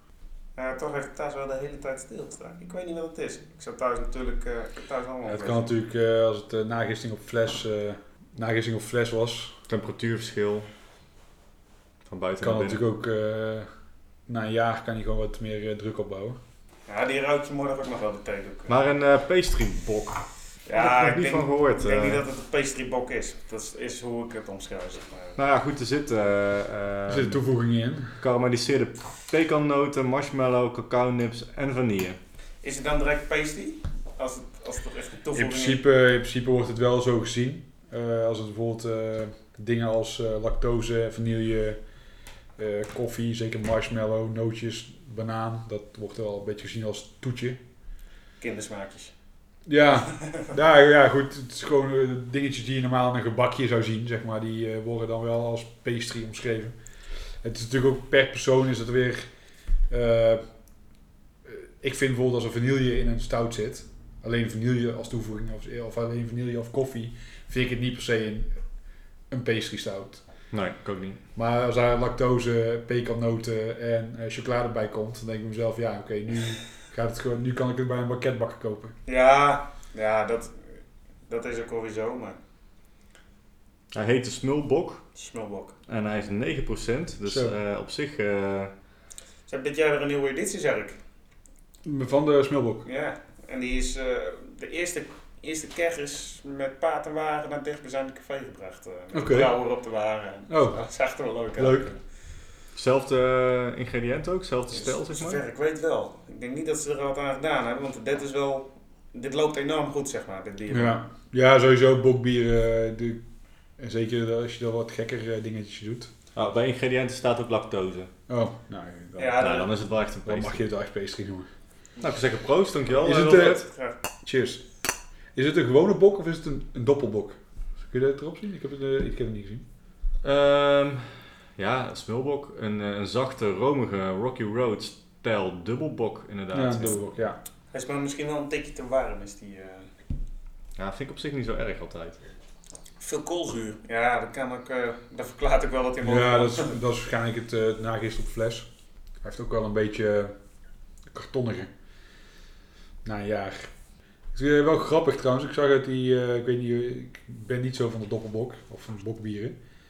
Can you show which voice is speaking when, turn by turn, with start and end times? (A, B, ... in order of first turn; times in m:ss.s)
0:00.6-0:05.7 A
0:05.3-0:09.6 B
0:09.7-0:10.7 C
0:12.1-0:12.8 C
0:12.4-0:13.7 B
0:14.3-0:16.4 B
0:16.9-0:18.8 A
0:18.7-0:22.2 C
0:20.6-0:25.4 A
0:25.4-0:27.5 C
0:27.1-0:28.2 B
0:28.2-0:32.2 C
0:32.6-0:35.8 A
0:35.4-0:41.9 B
0:42.6-0:47.6 B
0:48.4-0:49.1 A
0:49.7-0:56.8 B
0:50.2-0:50.4 A
0:57.4-0:59.3 B
0:59.9-1:00.4 B
1:01.4-1:08.5 B
1:09.3-1:10.2 B
1:10.5-1:11.2 C
1:11.4-1:19.0 B
1:19.1-1:20.8 A
1:21.3-1:22.4 A
1:23.9-1:25.0 C
1:25.2-1:25.8 A
1:25.9-1:28.7 C
1:27.3-1:27.6 B
1:29.5-1:31.0 A
1:31.8-1:32.8 B
1:32.8-1:41.9 A
1:39.1-1:39.5 B
1:40.5-1:40.8 B
1:41.6-1:42.0 B
1:42.8-1:45.4 C
1:44.7-1:51.0 A
1:50.7-1:53.2 B
1:53.8-1:56.1 B
1:56.4-1:58.1 C
1:58.3-1:59.4 B
1:59.2-1:59.7 A
1:59.4-2:00.6 C
2:00.2-2:01.5 B
2:02.0-2:03.6 C
2:03.0-2:04.7 B
2:03.6-2:04.0 A
2:05.4-2:09.6 B
2:10.2-2:17.0 C
2:16.5-2:17.4 B
2:17.7-2:19.9 A
2:20.8-2:22.2 C
2:23.0-2:26.8 A
2:26.0-2:28.7 B
2:29.2-2:30.3 B
2:31.1-2:31.7 B
2:33.0-2:33.7 B
2:34.3-2:39.6 B